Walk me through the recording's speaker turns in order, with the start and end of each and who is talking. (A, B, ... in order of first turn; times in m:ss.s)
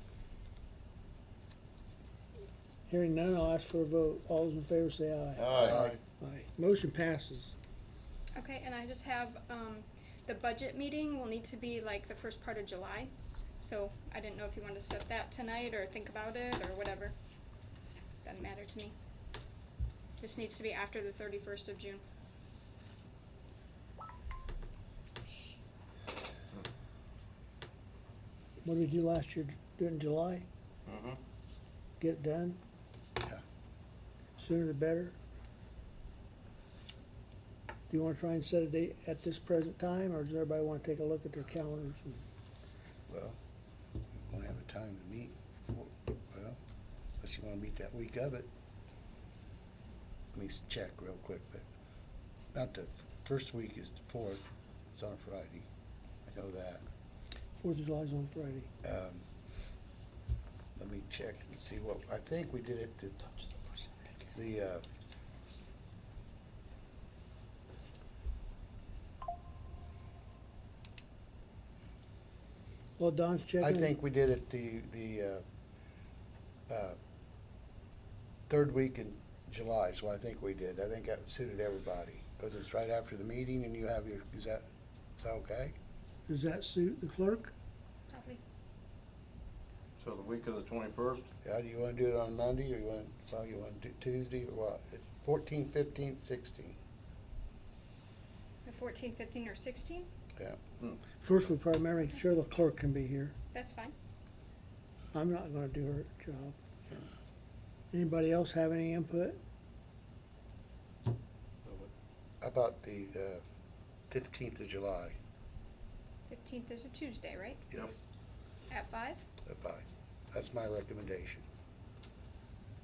0:02.9-0:05.5 A
0:05.4-0:06.0 B
0:05.5-0:06.0 C
0:06.1-0:07.5 A
0:08.3-0:17.1 D
0:18.2-0:18.9 D
0:20.2-0:22.0 D
0:28.6-0:30.5 A
0:30.8-0:31.2 B
0:32.0-0:32.6 A
0:34.4-0:35.2 A
0:37.9-0:42.2 A
0:43.1-0:43.4 C
0:44.1-0:46.6 C
0:47.2-0:48.5 C
0:50.3-0:51.6 C
0:52.5-0:55.7 C
0:56.2-0:56.8 C
0:57.6-0:58.7 A
0:58.8-0:59.3 C
1:00.8-1:04.8 C
1:13.0-1:13.9 A
1:13.6-1:15.4 C
1:16.7-1:17.0 C
1:18.5-1:24.6 C
1:25.2-1:25.7 C
1:26.3-1:27.5 A
1:28.1-1:28.4 D
1:30.0-1:31.3 B
1:31.4-1:36.8 C
1:38.6-1:40.1 D
1:41.2-1:43.4 A
1:43.5-1:43.9 D
1:45.1-1:46.6 A
1:47.9-1:49.4 A
1:52.4-1:53.4 C
1:54.1-1:55.1 C
1:56.3-1:57.7 D
1:57.7-1:58.0 C
1:58.7-1:59.2 D
1:59.4-2:01.4 C